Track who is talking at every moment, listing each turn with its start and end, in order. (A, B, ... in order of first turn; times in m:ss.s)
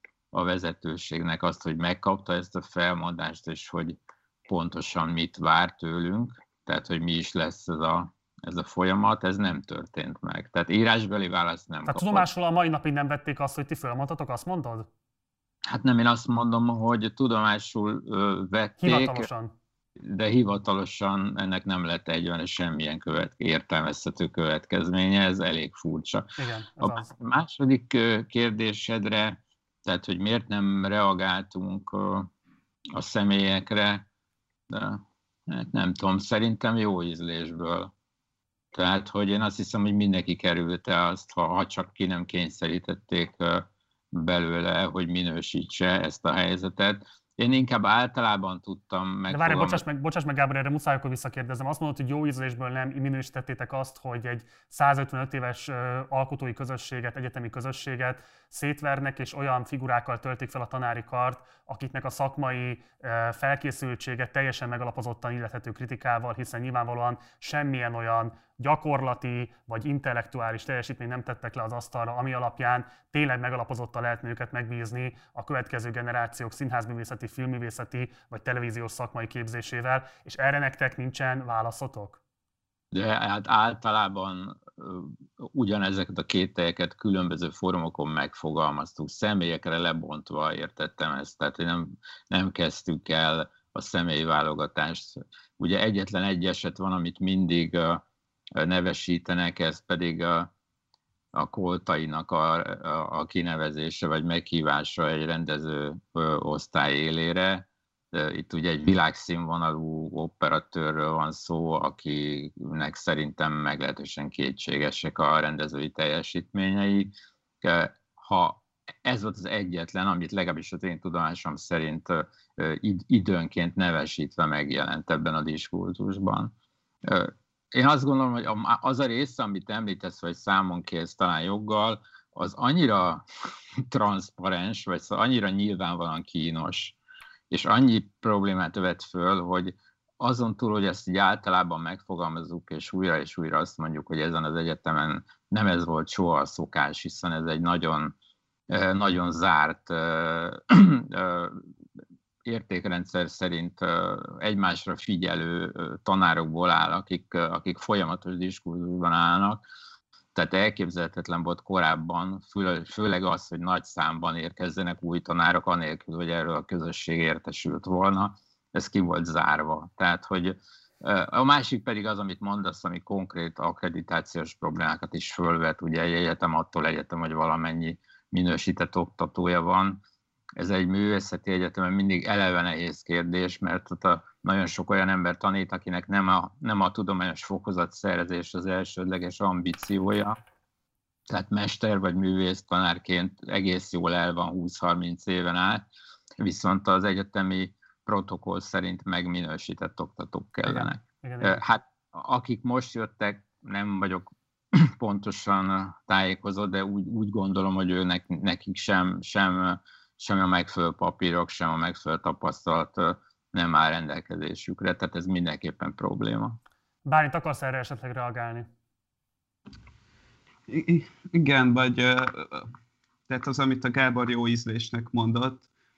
0:00.3-0:12.3 A
0:11.9-0:14.9 B
0:15.7-0:19.3 A
0:18.8-0:19.5 B
0:20.0-0:32.3 A
0:26.4-0:27.1 B
0:32.9-0:34.1 A
0:34.7-0:37.9 A
0:38.7-0:49.8 A
0:49.3-1:22.2 B
1:22.9-1:38.0 A
1:38.6-1:40.5 A
1:41.4-2:06.5 A
2:07.0-2:13.2 A
2:13.9-2:17.0 A
2:17.5-2:28.1 A
2:28.7-2:31.6 A
2:32.4-2:39.6 A
2:40.4-3:00.0 A
3:00.6-3:10.4 A
3:11.3-3:15.8 A
3:16.4-3:36.6 A
3:20.7-3:21.6 B
3:37.1-3:38.7 B
3:40.7-3:42.7 C
3:43.3-3:45.7 C